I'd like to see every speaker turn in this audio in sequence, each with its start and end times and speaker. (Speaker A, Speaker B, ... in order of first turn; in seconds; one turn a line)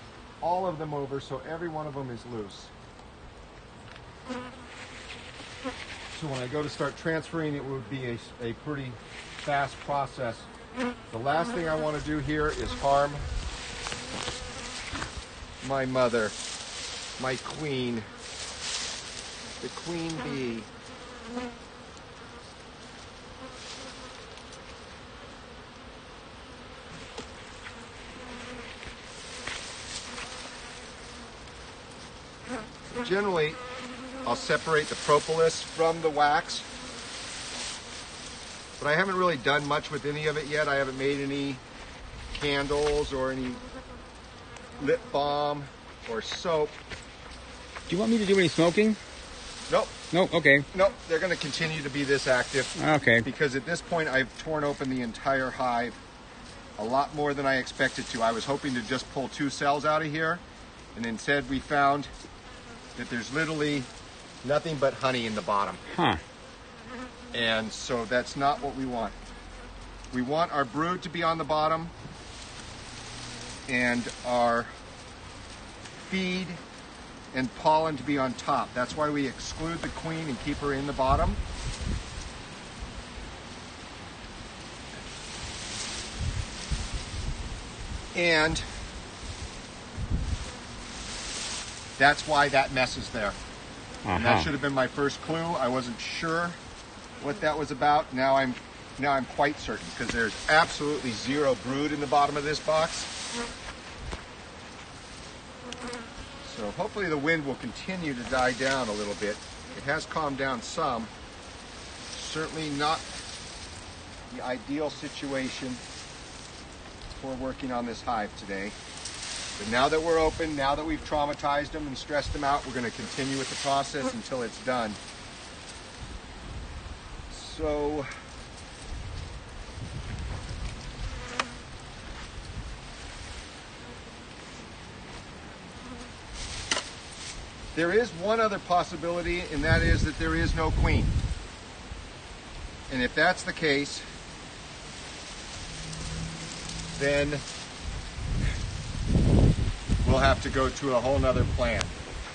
Speaker A: 0.4-2.7
Speaker A: 6.1-10.5
Speaker A: 11.1-13.2
Speaker A: 15.6-16.3
Speaker A: 17.2-18.0
Speaker A: 19.6-20.7
Speaker A: 33.0-33.6
Speaker A: 34.2-36.7
Speaker A: 38.8-41.6
Speaker A: 42.3-43.6
Speaker A: 44.8-46.8
Speaker B: 47.9-49.0
Speaker A: 49.7-50.0
Speaker B: 50.1-50.7
Speaker A: 50.7-56.0
Speaker B: 52.8-53.3
Speaker A: 56.8-60.4
Speaker A: 60.9-62.1
Speaker A: 63.0-63.9
Speaker A: 64.4-65.8
Speaker B: 65.9-66.2
Speaker A: 67.3-69.2
Speaker A: 70.1-71.9
Speaker A: 73.7-74.7
Speaker A: 76.0-76.6
Speaker A: 77.3-81.4
Speaker A: 88.1-88.6
Speaker A: 92.0-93.4
Speaker B: 94.0-94.5
Speaker A: 94.1-96.6
Speaker A: 97.2-103.1
Speaker A: 106.4-111.1
Speaker A: 112.1-113.0
Speaker A: 114.3-115.8
Speaker A: 117.2-118.8
Speaker A: 119.6-125.0
Speaker A: 127.3-128.1
Speaker A: 137.7-141.2
Speaker A: 142.9-144.0
Speaker A: 147.0-147.4
Speaker A: 150.0-151.9